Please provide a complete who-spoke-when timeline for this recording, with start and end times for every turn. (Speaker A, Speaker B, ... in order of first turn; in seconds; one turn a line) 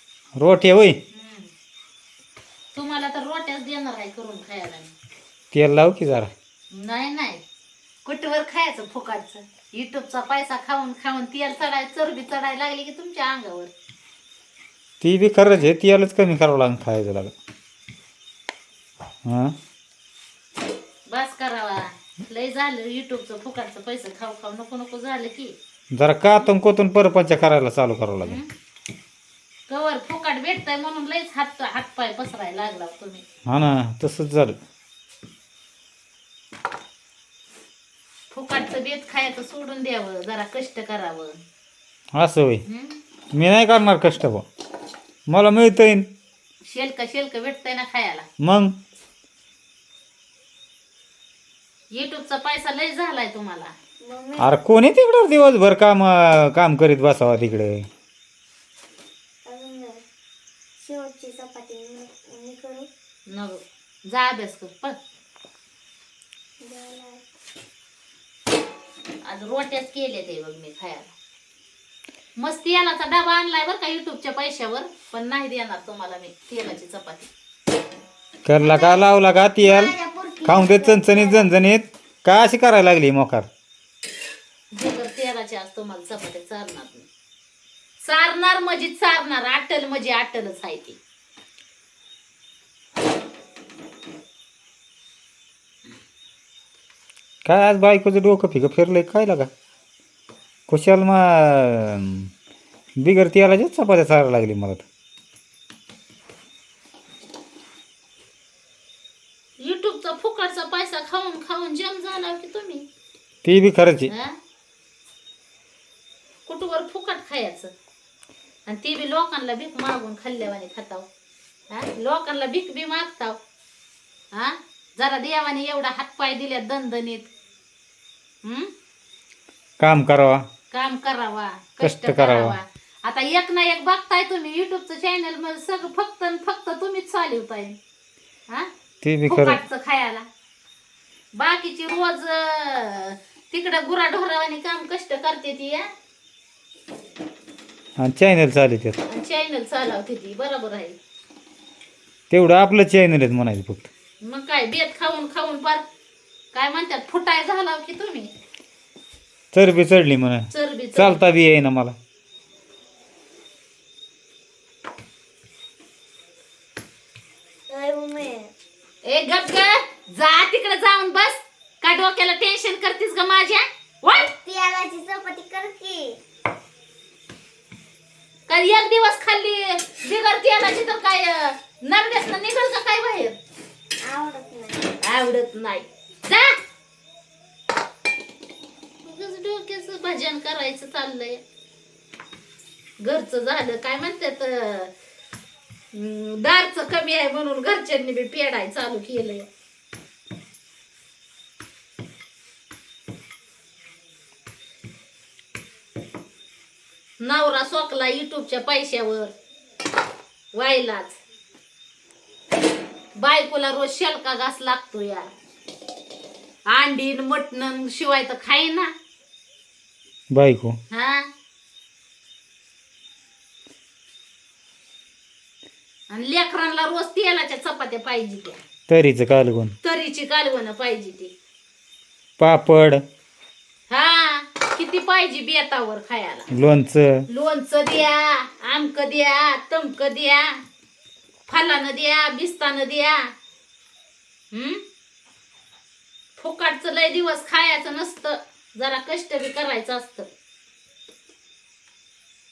Speaker A: 0.3-1.0
Speaker B: 1.1-1.5
Speaker B: 2.7-4.9
Speaker A: 5.5-6.3
Speaker B: 6.7-7.4
Speaker B: 8.0-13.7
Speaker A: 15.0-17.3
Speaker A: 19.2-19.5
Speaker B: 21.1-25.5
Speaker A: 25.9-28.4
Speaker B: 28.2-28.5
Speaker B: 29.7-33.2
Speaker A: 33.5-34.6
Speaker B: 38.3-41.3
Speaker A: 42.1-42.6
Speaker B: 42.6-43.0
Speaker A: 43.3-44.4
Speaker A: 45.3-46.0
Speaker B: 46.6-48.2
Speaker A: 48.4-48.7
Speaker B: 51.9-53.7
Speaker C: 54.0-54.5
Speaker A: 54.4-57.9
Speaker C: 59.5-60.0
Speaker C: 60.8-62.9
Speaker B: 63.3-65.0
Speaker C: 66.6-67.2
Speaker B: 69.2-71.1
Speaker B: 72.4-77.3
Speaker A: 78.5-79.9
Speaker C: 78.5-79.0
Speaker C: 79.6-81.5
Speaker A: 80.4-83.5
Speaker B: 84.7-87.1
Speaker B: 88.0-91.0
Speaker A: 97.4-99.5
Speaker A: 100.7-102.3
Speaker A: 103.0-104.8
Speaker B: 109.6-112.8
Speaker A: 113.4-114.1
Speaker B: 114.1-114.3
Speaker B: 116.5-117.7
Speaker B: 118.7-121.1
Speaker B: 121.7-123.4
Speaker B: 124.3-127.3
Speaker B: 128.4-128.7
Speaker A: 129.8-130.4
Speaker B: 130.7-137.8
Speaker A: 131.8-132.6
Speaker A: 139.0-139.6
Speaker B: 139.2-140.2
Speaker B: 141.3-145.8
Speaker A: 148.0-149.0
Speaker B: 149.1-150.9
Speaker A: 152.3-153.9
Speaker B: 154.2-155.8
Speaker B: 156.5-158.3
Speaker A: 159.5-161.9
Speaker B: 160.5-161.2
Speaker C: 167.7-168.5
Speaker B: 169.0-174.3
Speaker C: 174.4-176.2
Speaker B: 178.5-183.3
Speaker C: 184.0-184.9
Speaker B: 185.0-186.6
Speaker B: 189.0-191.4
Speaker B: 193.0-194.9
Speaker B: 195.9-199.5
Speaker B: 207.2-209.3
Speaker B: 210.5-211.2
Speaker B: 213.2-215.2
Speaker B: 216.7-218.9
Speaker A: 220.3-220.8
Speaker B: 220.9-221.2
Speaker B: 226.1-228.6
Speaker A: 228.9-229.7
Speaker B: 229.8-231.3
Speaker A: 232.4-233.0
Speaker B: 233.9-236.5
Speaker A: 236.5-237.2
Speaker B: 237.3-240.6
Speaker B: 241.5-243.2
Speaker B: 244.5-244.8
Speaker B: 246.4-250.3